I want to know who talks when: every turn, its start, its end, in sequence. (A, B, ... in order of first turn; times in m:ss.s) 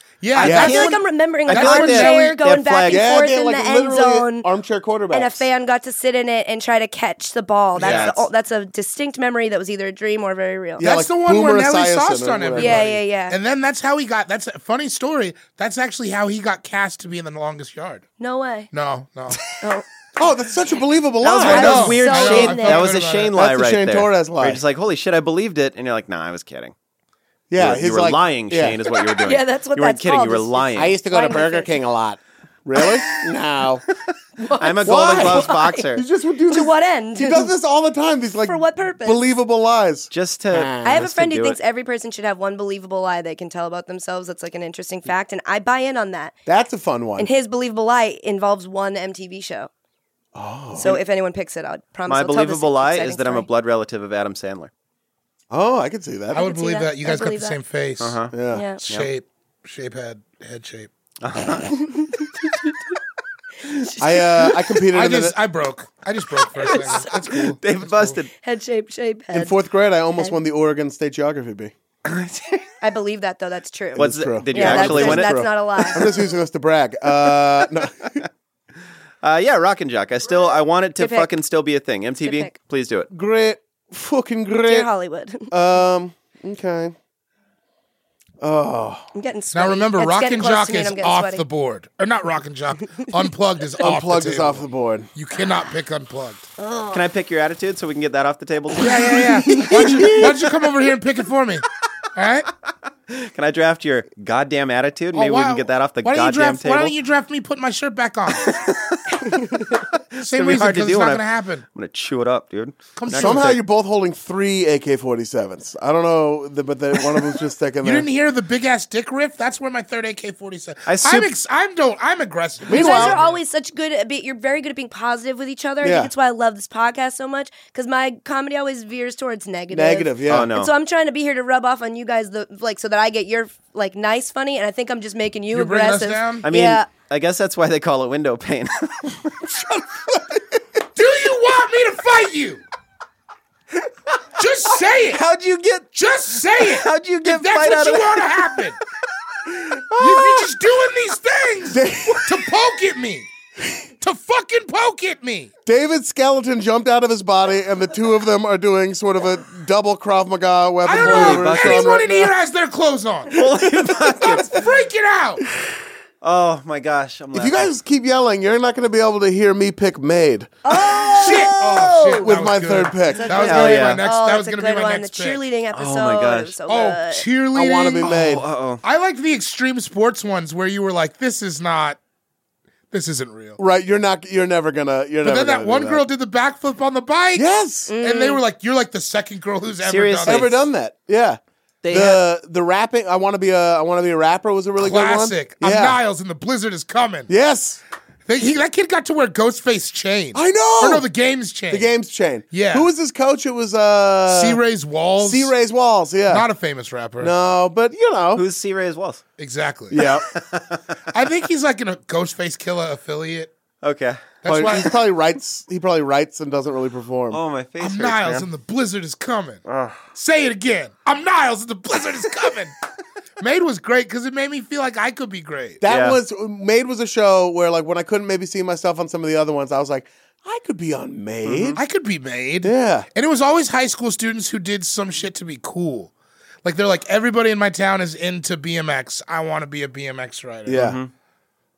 0:00.2-0:02.4 A
0:00.4-0:03.0 B
0:00.4-0:00.8 C
0:00.4-0:04.5 D
0:02.9-0:05.4 C
0:05.1-0:10.9 D
0:07.8-0:08.1 A
0:07.8-0:08.2 B
0:10.8-0:12.9 C
0:10.8-0:18.0 A
0:12.6-0:13.4 D
0:18.2-0:18.7 D
0:18.7-0:19.4 A
0:20.2-0:22.0 C
0:21.2-0:26.7 B
0:21.4-0:22.9 D
0:21.4-0:23.3 A
0:23.3-0:24.6 C
0:27.5-0:28.8 C
0:27.6-0:31.0 B
0:28.9-0:31.7 D
0:30.8-0:33.8 C
0:34.4-0:36.0 D
0:34.6-0:36.0 B
0:34.8-0:41.1 C
0:36.5-0:37.5 D
0:38.4-0:39.3 D
0:40.1-0:41.6 B
0:40.8-0:46.3 D
0:46.5-0:47.3 C
0:47.2-0:49.7 D
0:50.3-0:51.0 C
0:50.8-0:53.5 D
0:52.1-0:54.7 B
0:55.5-0:56.5 C
0:56.3-0:57.6 D
0:56.3-0:58.2 A
0:58.0-0:58.3 B
0:58.3-0:58.6 C
0:58.5-0:58.8 D
0:58.8-1:00.9 A
1:01.2-1:02.2 B
1:01.7-1:02.4 D
1:03.7-1:04.0 D
1:04.0-1:05.4 C
1:04.9-1:08.2 A
1:06.6-1:08.3 B
1:08.4-1:09.6 D
1:09.3-1:11.7 C
1:12.0-1:12.7 B
1:12.8-1:16.1 D
1:14.0-1:18.2 C
1:14.0-1:15.9 B
1:17.3-1:17.6 B
1:19.2-1:23.1 B
1:21.0-1:21.3 D
1:22.2-1:22.6 D
1:23.1-1:24.9 C
1:24.6-1:25.5 D
1:25.5-1:27.0 C
1:28.4-1:29.1 C
1:29.2-1:31.4 D
1:29.5-1:34.6 A
1:33.8-1:35.1 C
1:35.2-1:36.5 A
1:36.6-1:37.0 D
1:36.9-1:40.2 B
1:38.8-1:41.6 A
1:39.7-1:40.3 C
1:42.2-1:42.5 A
1:43.1-1:47.0 B
1:45.1-1:48.6 A
1:48.4-1:51.2 B
1:49.3-1:49.6 D
1:50.2-1:51.6 A
1:51.8-1:53.6 B
1:53.0-1:53.6 A
1:53.1-1:58.1 C
1:57.8-2:03.4 A
2:00.9-2:01.3 B
2:02.6-2:03.2 C
2:02.7-2:16.9 D
2:05.8-2:06.1 C
2:09.7-2:10.5 C
2:10.3-2:10.7 B
2:15.5-2:16.5 A
2:16.4-2:19.5 B
2:19.5-2:20.4 C
2:21.0-2:22.6 A
2:24.4-2:25.2 A
2:25.0-2:25.9 B
2:26.0-2:28.8 A
2:26.5-2:28.3 B
2:29.5-2:30.4 C
2:30.0-2:33.3 A
2:31.7-2:32.5 C
2:34.0-2:35.5 A
2:35.6-2:42.3 C
2:40.8-2:43.4 A
2:41.0-2:42.3 B
2:43.3-2:44.6 B
2:43.9-2:44.4 C
2:44.2-2:45.5 A
2:46.2-2:47.7 B
2:47.3-2:51.4 C
2:50.6-2:52.3 D
2:51.1-2:55.4 A
2:52.2-2:53.5 C
2:53.2-2:57.2 D
2:53.3-2:54.0 B
2:55.7-2:56.6 B
2:56.7-2:58.2 A
2:57.5-2:58.4 C
2:58.0-2:58.8 B
2:58.8-3:02.0 A
3:02.9-3:03.6 A
3:03.6-3:06.1 C
3:05.2-3:07.5 A
3:07.4-3:07.9 C
3:07.9-3:08.4 D
3:08.0-3:10.5 A
3:09.8-3:10.6 B
3:10.2-3:16.0 C
3:11.8-3:12.2 B
3:14.8-3:17.3 A
3:17.3-3:17.8 C
3:18.3-3:21.9 A
3:20.3-3:21.1 C
3:21.7-3:24.6 C
3:22.5-3:22.9 A
3:24.3-3:25.5 A
3:25.2-3:26.5 C
3:26.3-3:27.3 A
3:27.2-3:28.4 C
3:28.4-3:29.2 B
3:29.4-3:30.0 A
3:29.9-3:30.3 C
3:30.0-3:31.0 B
3:31.1-3:33.5 A
3:33.8-3:34.3 B
3:34.4-3:34.9 A
3:34.4-3:37.4 C
3:37.3-3:38.5 B
3:37.8-3:39.6 A
3:39.7-3:40.0 C
3:40.1-3:42.8 A
3:43.4-3:45.8 A
3:45.8-3:51.8 C
3:45.8-3:46.2 B
3:51.4-3:51.8 B
3:51.8-3:56.1 A
3:52.6-3:53.1 C
3:56.6-4:00.8 A
4:00.7-4:01.0 C
4:00.7-4:01.1 B